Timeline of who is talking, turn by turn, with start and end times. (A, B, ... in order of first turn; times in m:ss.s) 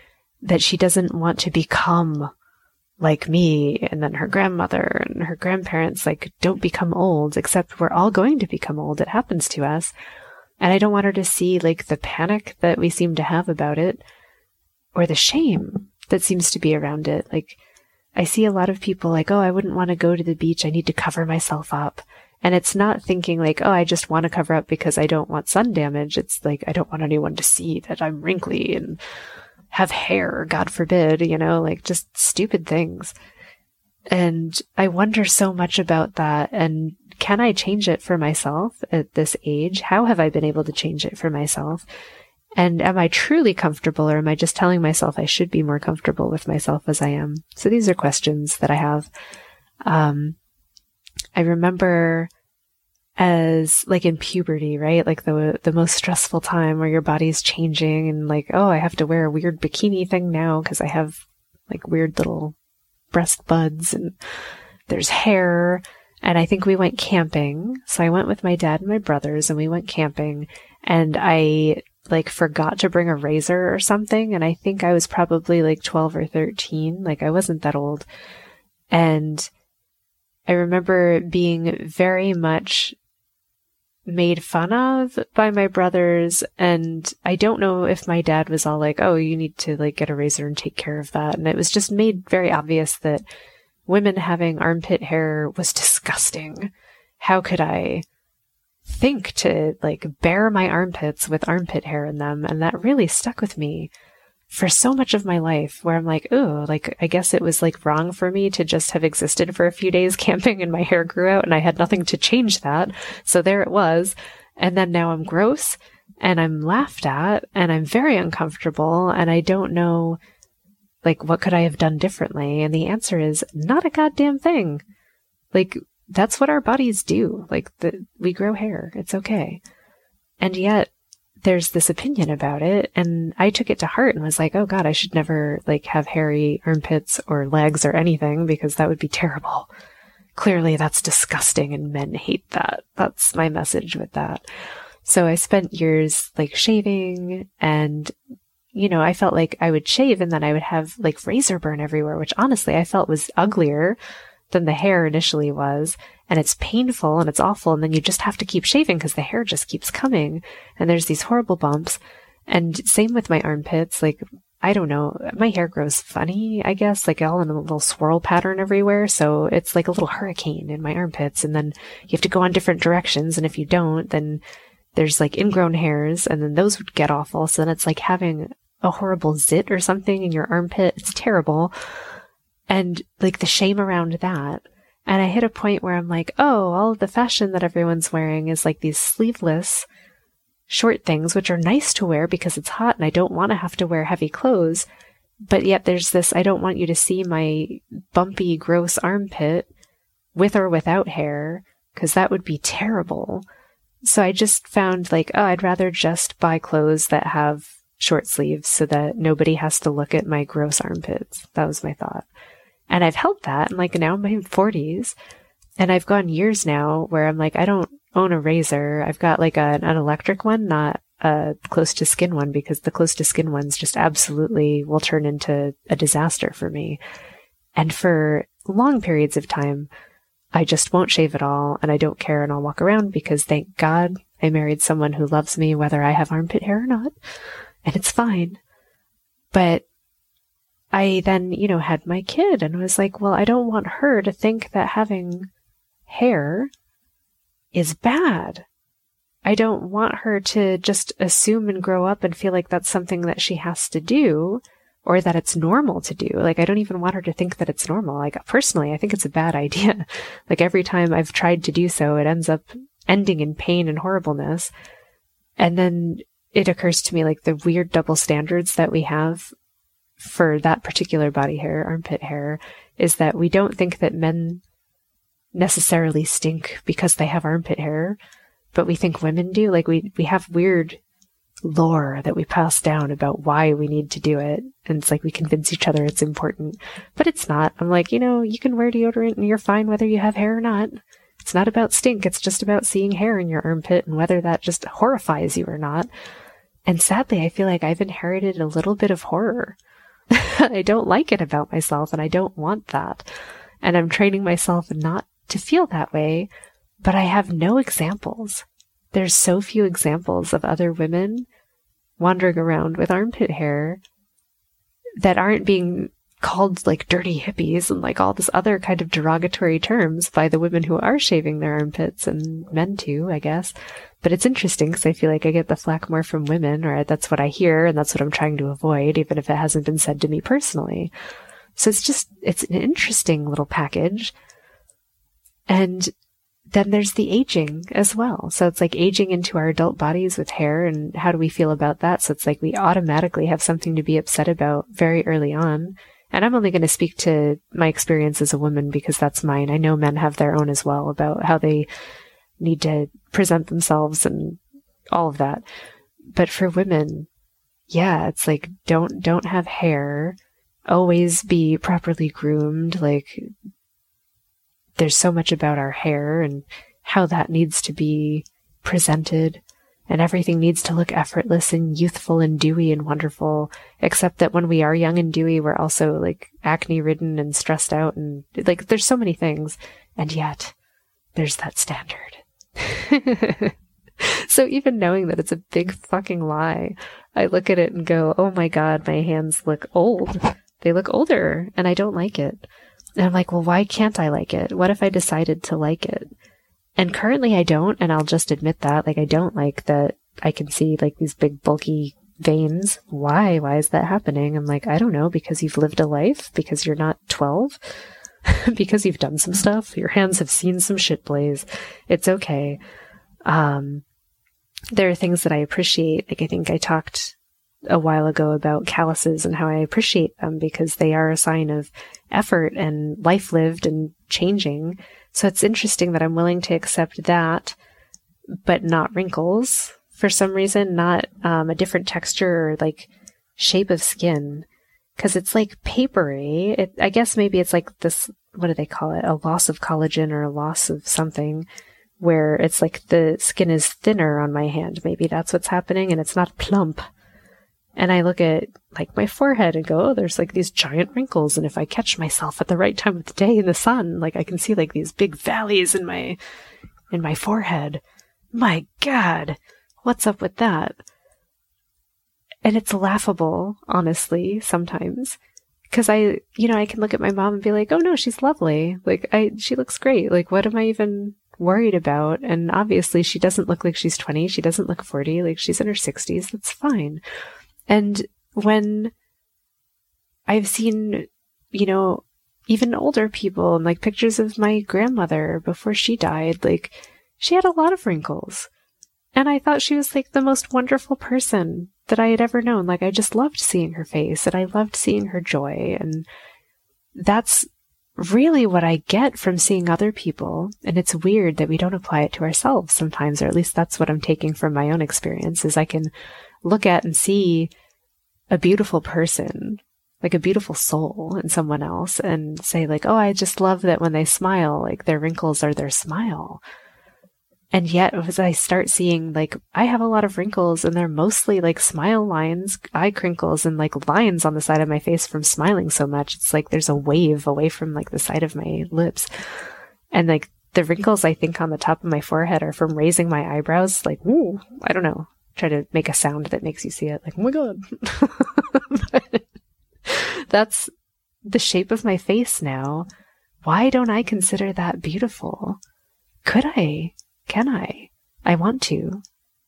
0:00.4-0:02.3 A
0:03.0-0:09.9 A
0:10.6-0:14.0 A
0:15.0-0:17.6 A
0:18.2-0:29.0 A
0:29.7-0:33.2 A
0:34.1-0:41.9 A
0:42.6-0:49.1 A
0:49.9-0:50.4 A
0:51.4-0:52.3 A
0:53.2-1:02.6 A
1:03.1-1:04.2 A
1:04.9-1:18.1 A
1:18.9-1:19.5 A
1:20.5-1:23.0 A
1:24.1-1:33.2 A
1:33.9-1:38.0 A
1:38.9-1:43.9 A
1:44.5-2:00.2 A
2:01.0-2:04.8 A
2:05.5-2:09.6 A
2:10.4-2:10.9 A
2:11.4-2:19.7 A
2:20.4-2:24.4 A
2:25.0-2:28.1 A
2:28.7-2:34.0 A
2:34.5-2:54.4 A
2:55.0-3:01.7 A
3:02.7-3:09.9 A
3:10.7-3:14.9 A
3:15.5-3:19.7 A
3:20.4-3:23.4 A
3:24.0-3:32.3 A
3:32.9-3:35.2 A
3:35.8-3:47.0 A
3:47.8-3:49.9 A
3:50.5-3:57.1 A
3:57.8-3:58.6 A
3:59.5-3:59.8 A
4:00.9-4:05.5 A
4:06.1-4:06.7 A
4:07.7-4:08.7 A
4:09.4-4:24.7 A
4:25.6-4:29.5 A
4:30.2-4:34.6 A
4:35.5-4:38.2 A
4:38.7-4:41.0 A
4:41.6-4:56.1 A
4:56.9-4:59.8 A
5:00.3-5:03.3 A
5:03.8-5:06.5 A
5:07.0-5:11.5 A
5:12.2-5:14.0 A
5:15.2-5:31.1 A
5:31.8-5:34.3 A
5:35.7-5:36.1 A
5:36.7-5:51.9 A
5:52.6-5:54.6 A
5:55.1-5:55.6 A
5:56.3-5:57.3 A
5:57.9-6:00.4 A
6:00.9-6:03.5 A
6:05.0-6:20.8 A
6:21.4-6:32.7 A
6:33.2-6:36.3 A
6:37.0-6:47.8 A
6:48.5-6:52.8 A
6:53.5-6:54.0 A
6:54.9-6:57.4 A
6:57.9-7:07.8 A
7:08.6-7:21.7 A
7:22.2-7:27.0 A
7:28.0-7:36.4 A
7:37.1-7:38.0 A
7:38.5-7:41.0 A
7:42.6-7:45.4 A
7:45.9-7:57.2 A
7:57.9-7:59.1 A
8:00.5-8:08.7 A
8:09.4-8:16.3 A
8:17.2-8:26.1 A
8:26.6-8:27.7 A
8:28.5-8:36.6 A
8:37.7-8:49.3 A
8:50.1-8:59.5 A
9:00.0-9:00.9 A
9:01.5-9:03.1 A
9:03.6-9:05.8 A
9:06.4-9:09.2 A